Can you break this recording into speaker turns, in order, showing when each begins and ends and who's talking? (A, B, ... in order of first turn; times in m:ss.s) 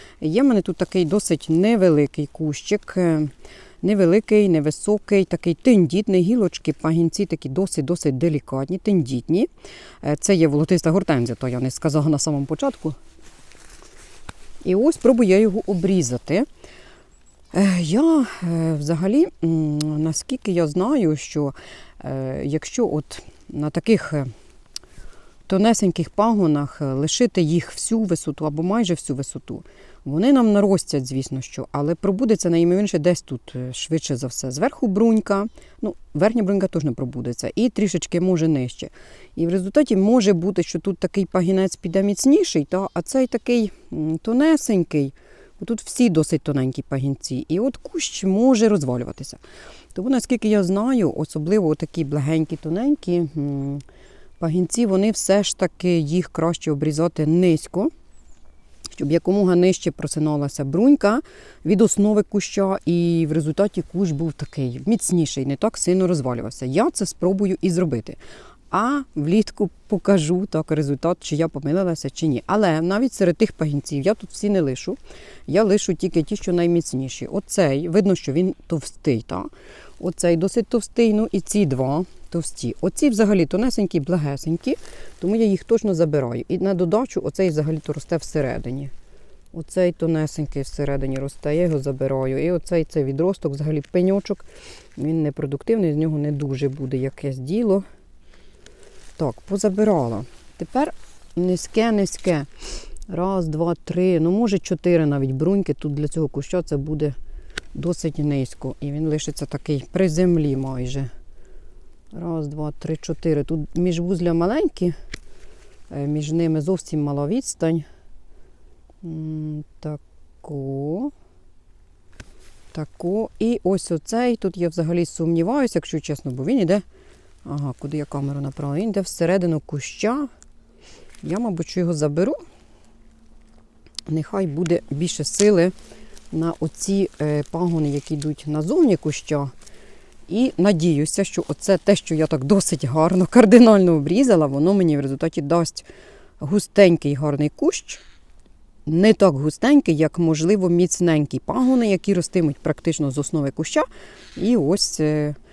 0:00.2-0:03.3 A
0:03.8-0:09.5 A
0:10.0-0:13.0 A
0:14.6-0:16.5 A
0:17.5-0:24.3 A
0:25.5-0:49.4 A
0:49.9-0:53.8 A
0:54.4-0:57.9 A
0:59.0-1:08.2 A
1:08.7-1:28.9 A
1:29.5-1:37.8 A
1:39.2-1:42.5 A
1:43.1-1:47.1 A
1:47.7-1:51.1 A
1:52.1-1:54.9 A
1:55.9-1:57.8 A
1:59.0-2:01.1 A
2:02.7-2:06.8 A
2:07.4-2:10.3 A
2:11.2-2:12.4 A
2:14.1-2:15.7 A
2:16.3-2:19.5 A
2:20.3-2:25.9 A
2:26.4-2:28.0 A
2:28.8-2:35.4 A